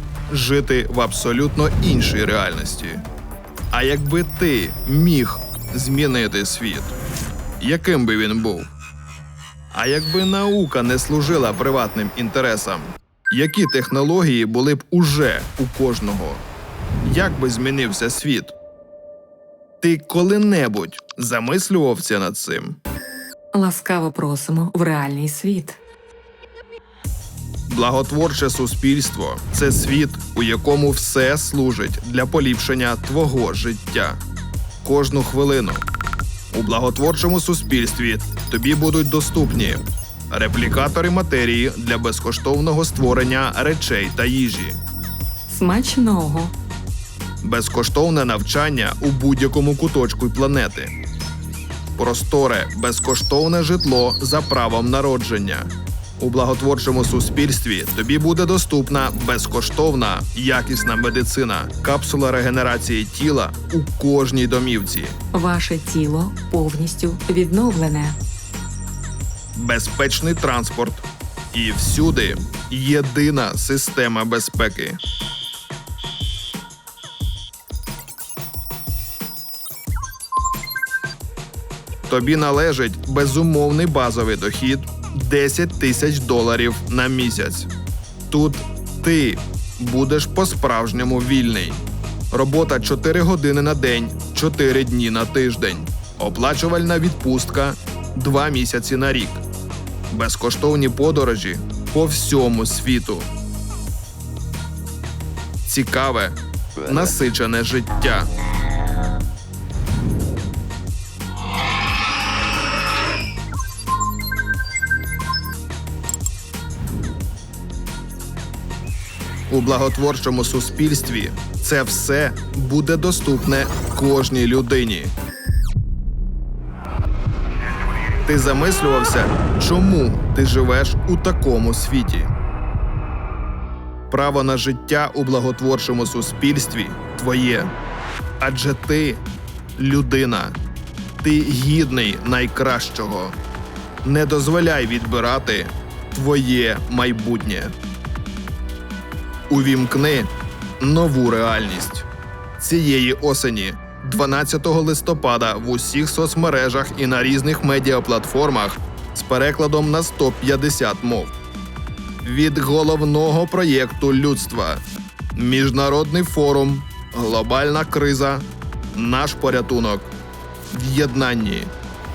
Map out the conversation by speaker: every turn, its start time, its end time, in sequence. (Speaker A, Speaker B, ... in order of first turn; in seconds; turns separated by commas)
Speaker A: 0.3-3.0, Speaker A: 3.7-7.0, Speaker A: 7.6-8.7, Speaker A: 9.7-16.4, Speaker A: 17.0-18.5, Speaker A: 19.8-22.8, Speaker B: 23.5-25.8, Speaker A: 27.7-34.2, Speaker A: 34.8-35.8, Speaker A: 36.5-44.8, Speaker B: 45.5-46.5, Speaker A: 47.4-50.9, Speaker A: 52.0-65.2, Speaker B: 65.3-68.2, Speaker A: 69.5-75.0, Speaker A: 82.1-87.7, Speaker A: 88.3-99.4, Speaker A: 100.1-103.3, Speaker A: 105.6-108.3, Speaker A: 119.5-125.1, Speaker A: 128.3-132.3, Speaker A: 134.1-137.7, Speaker A: 138.4-139.2, Speaker A: 139.8-140.6, Speaker A: 141.2-143.3, Speaker A: 144.0-147.7, Speaker A: 149.5-152.1, Speaker A: 152.6-161.3, Speaker A: 162.2-164.8, Speaker A: 165.3-170.1, Speaker A: 170.7-171.7